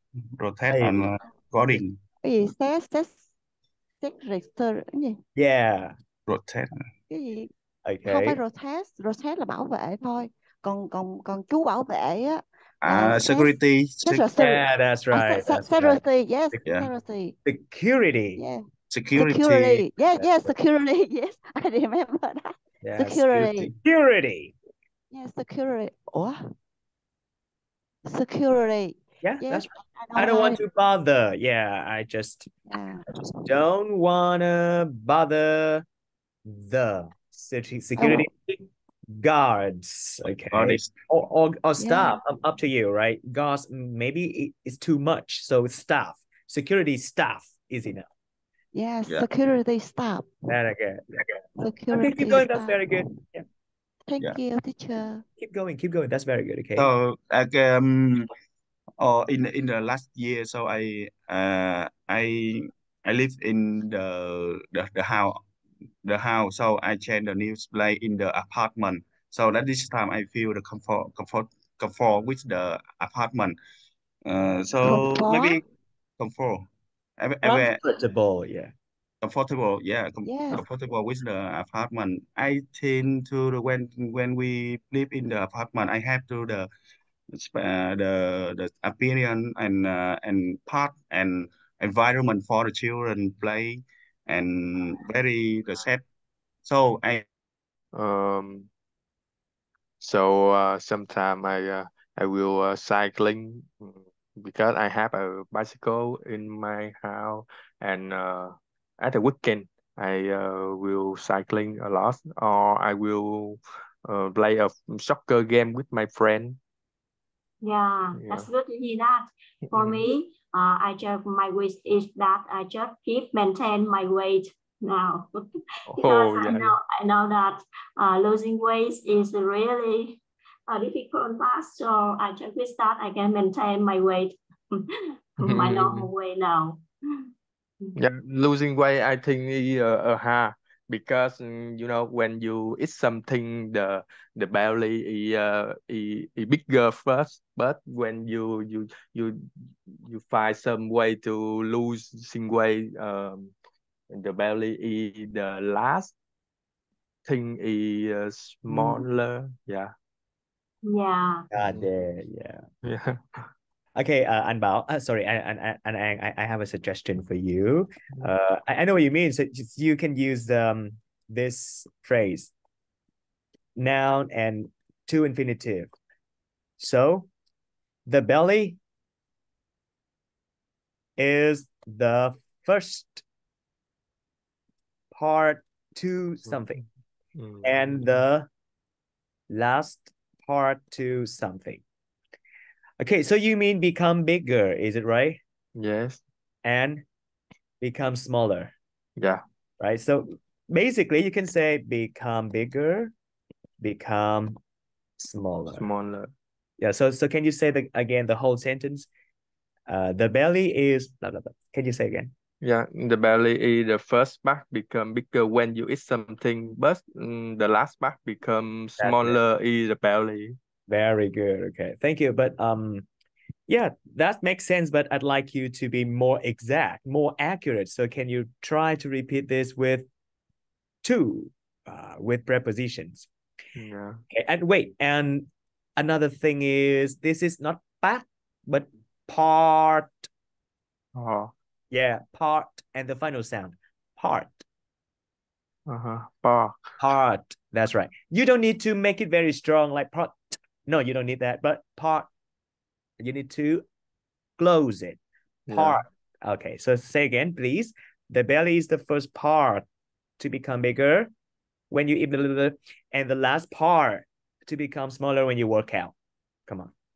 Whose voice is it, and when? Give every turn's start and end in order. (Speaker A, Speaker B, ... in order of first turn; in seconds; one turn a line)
Speaker A: 0.3-1.9
Speaker B: 0.7-1.1
Speaker C: 2.2-3.2
Speaker C: 4.0-5.2
Speaker B: 5.3-5.9
Speaker A: 6.3-6.8
Speaker C: 7.1-7.5
Speaker B: 7.8-8.4
Speaker C: 8.0-17.3
Speaker A: 12.8-14.2
Speaker B: 14.4-16.0
Speaker A: 16.6-16.9
Speaker B: 17.4-18.4
Speaker C: 18.4-23.7
Speaker A: 18.9-19.9
Speaker B: 20.1-20.5
Speaker B: 22.8-24.5
Speaker A: 23.3-23.7
Speaker C: 25.1-26.4
Speaker C: 28.1-30.6
Speaker B: 29.2-32.5
Speaker C: 32.7-33.0
Speaker B: 33.1-35.8
Speaker B: 36.5-48.1
Speaker C: 38.0-38.3
Speaker A: 40.5-40.9
Speaker C: 41.8-42.2
Speaker C: 48.7-50.4
Speaker B: 50.5-51.1
Speaker C: 51.6-53.0
Speaker B: 51.9-53.4
Speaker C: 54.1-55.2
Speaker B: 55.4-56.9
Speaker A: 56.8-58.3
Speaker A: 59.0-65.4
Speaker A: 66.0-73.5
Speaker A: 74.2-75.6
Speaker C: 74.8-75.6
Speaker A: 76.2-76.6
Speaker A: 77.2-77.8
Speaker B: 77.4-78.7
Speaker A: 79.2-86.7
Speaker C: 80.2-80.7
Speaker A: 87.3-96.0
Speaker A: 96.6-97.2
Speaker D: 97.9-98.7
Speaker D: 100.0-116.6
Speaker E: 117.6-125.3
Speaker D: 118.1-118.5
Speaker D: 119.7-120.1
Speaker D: 125.9-126.8
Speaker E: 125.9-136.8
Speaker D: 135.4-136.1
Speaker D: 137.9-153.5
Speaker D: 154.1-156.1
Speaker D: 157.2-159.9
Speaker B: 158.7-159.0
Speaker E: 160.8-161.5
Speaker B: 161.5-162.6
Speaker D: 161.6-161.9
Speaker D: 162.8-163.5
Speaker B: 163.9-172.5
Speaker B: 173.8-175.9
Speaker B: 176.8-177.3
Speaker B: 178.1-178.8
Speaker B: 181.2-183.2
Speaker B: 185.1-186.8
Speaker D: 186.4-186.8
Speaker D: 187.3-188.2
Speaker B: 187.6-188.5
Speaker B: 189.5-191.8
Speaker B: 193.0-195.4
Speaker D: 195.8-196.2
Speaker B: 196.6-197.0
Speaker B: 197.8-198.7
Speaker D: 199.2-199.4
Speaker B: 199.8-203.1
Speaker B: 203.8-204.6
Speaker B: 205.2-205.9
Speaker D: 205.7-206.3
Speaker B: 206.8-209.1
Speaker B: 209.9-212.3
Speaker D: 212.6-220.6
Speaker B: 219.0-219.4
Speaker B: 220.9-223.1
Speaker B: 223.7-230.1
Speaker B: 231.0-233.2
Speaker D: 233.8-234.2
Speaker B: 234.3-240.3
Speaker D: 241.1-241.5
Speaker B: 241.9-244.6
Speaker D: 245.9-246.8
Speaker B: 247.0-252.3
Speaker B: 253.2-253.8
Speaker B: 254.6-259.8
Speaker D: 255.7-256.0
Speaker B: 260.4-261.3
Speaker B: 261.9-266.1
Speaker B: 266.7-266.9